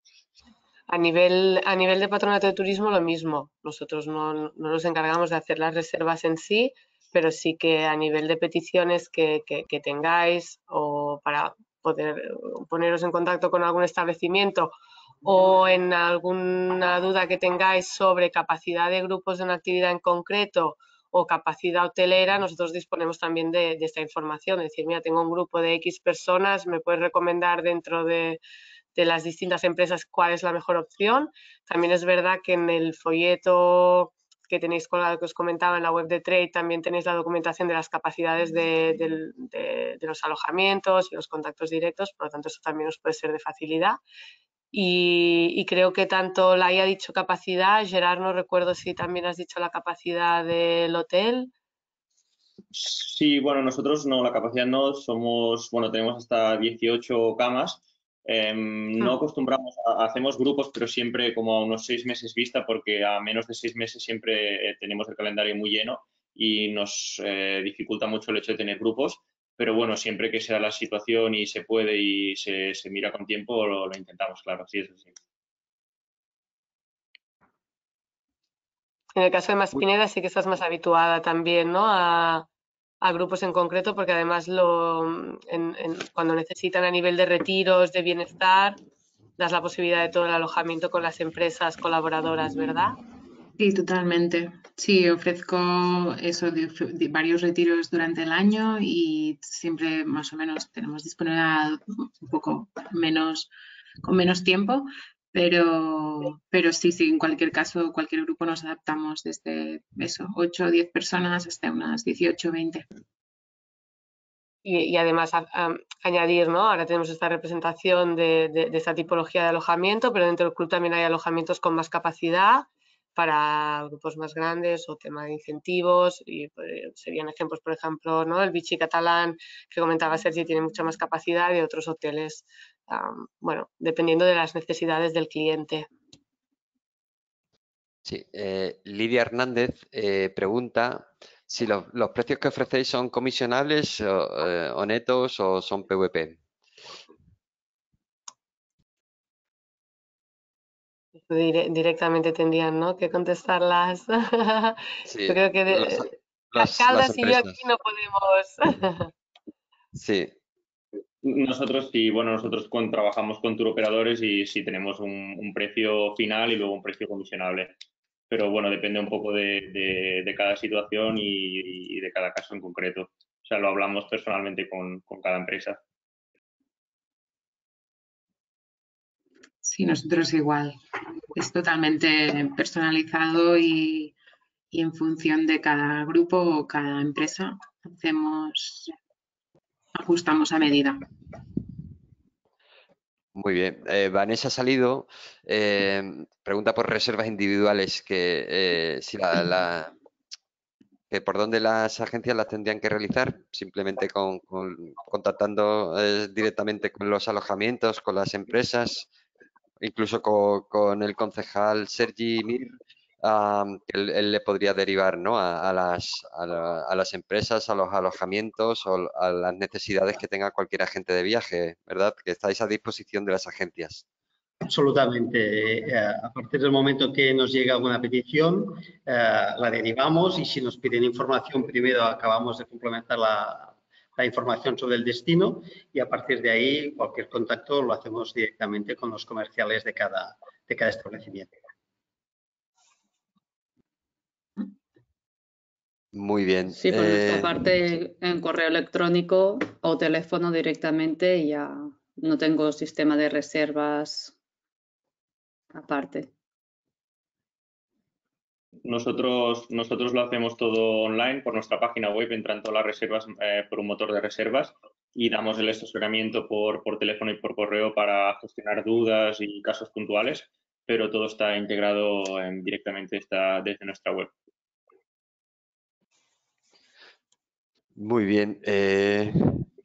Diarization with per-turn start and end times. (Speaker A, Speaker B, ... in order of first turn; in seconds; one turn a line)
Speaker A: 0.9-28.4
Speaker A: 28.9-44.0
Speaker A: 44.7-51.5
Speaker B: 52.7-75.2
Speaker A: 79.1-82.5
Speaker A: 83.0-88.8
Speaker A: 89.4-93.0
Speaker C: 93.6-103.5
Speaker C: 104.0-112.8
Speaker A: 114.6-135.9
Speaker D: 138.0-146.4
Speaker A: 151.3-159.1
Speaker D: 155.1-157.6
Speaker D: 159.9-160.3
Speaker B: 161.2-167.8
Speaker B: 168.3-175.8
Speaker C: 179.6-180.8
Speaker C: 181.3-184.1
Speaker C: 184.7-188.9
Speaker C: 189.9-191.1
Speaker D: 193.3-199.9
Speaker D: 201.1-209.1
Speaker D: 209.8-224.0
Speaker E: 224.6-241.5
Speaker D: 246.1-247.7
Speaker F: 246.7-254.3
Speaker F: 255.7-256.3
Speaker B: 258.8-274.3
Speaker D: 277.9-279.6